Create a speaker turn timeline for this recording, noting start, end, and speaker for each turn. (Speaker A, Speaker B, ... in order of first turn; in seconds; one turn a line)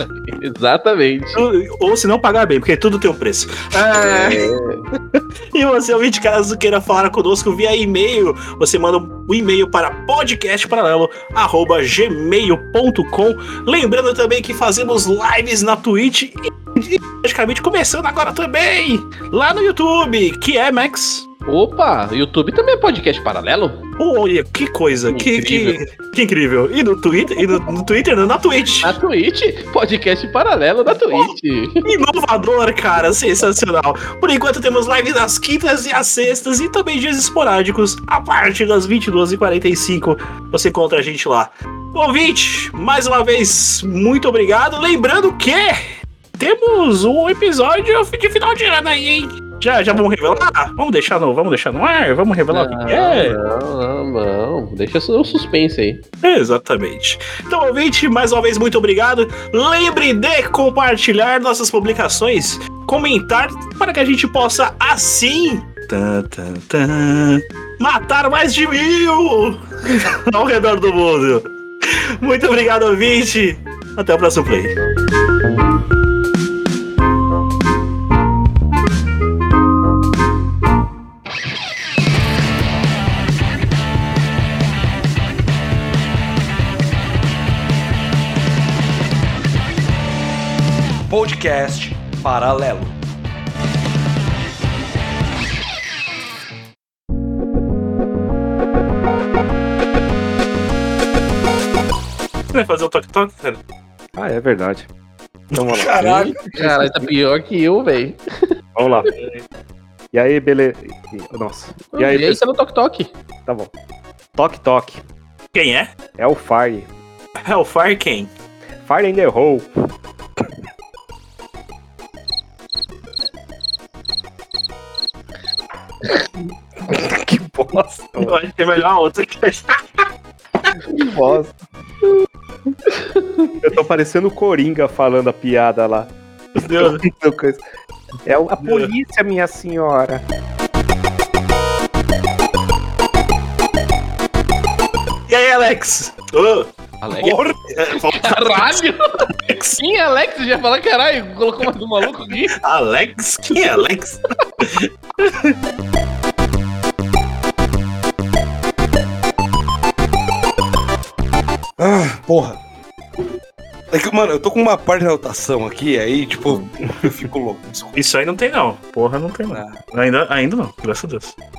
Speaker A: 0.2-1.4
Speaker B: 1.3-4.5
Speaker A: 4.0-4.8
Speaker B: 5.2-21.3
Speaker A: 21.5-23.8
Speaker B: 24.0-29.0
Speaker A: 25.1-25.8
Speaker A: 27.4-27.7
Speaker A: 28.8-31.9
Speaker B: 31.9-53.4
Speaker A: 52.5-56.0
Speaker B: 56.2-74.8
Speaker C: 91.1-92.9
Speaker B: 102.5-103.6
Speaker D: 104.2-104.9
Speaker D: 105.5-107.1
Speaker C: 105.6-106.4
Speaker A: 106.0-108.2
Speaker D: 108.8-109.4
Speaker D: 110.1-112.4
Speaker A: 112.0-113.1
Speaker D: 113.5-113.7
Speaker D: 114.3-115.0
Speaker B: 115.5-115.9
Speaker D: 116.2-116.9
Speaker B: 117.5-118.3
Speaker D: 118.8-119.7
Speaker D: 126.8-128.4
Speaker B: 128.2-129.8
Speaker D: 130.9-131.6
Speaker A: 132.9-133.5
Speaker D: 133.6-137.6
Speaker B: 136.6-137.0
Speaker D: 138.2-140.2
Speaker B: 138.6-138.9
Speaker B: 145.3-149.8
Speaker A: 147.0-147.4
Speaker C: 147.2-147.5
Speaker A: 148.0-149.3
Speaker A: 149.8-152.5
Speaker B: 152.6-155.6
Speaker C: 161.8-162.6
Speaker C: 163.9-168.0
Speaker B: 167.9-171.3
Speaker C: 169.5-169.8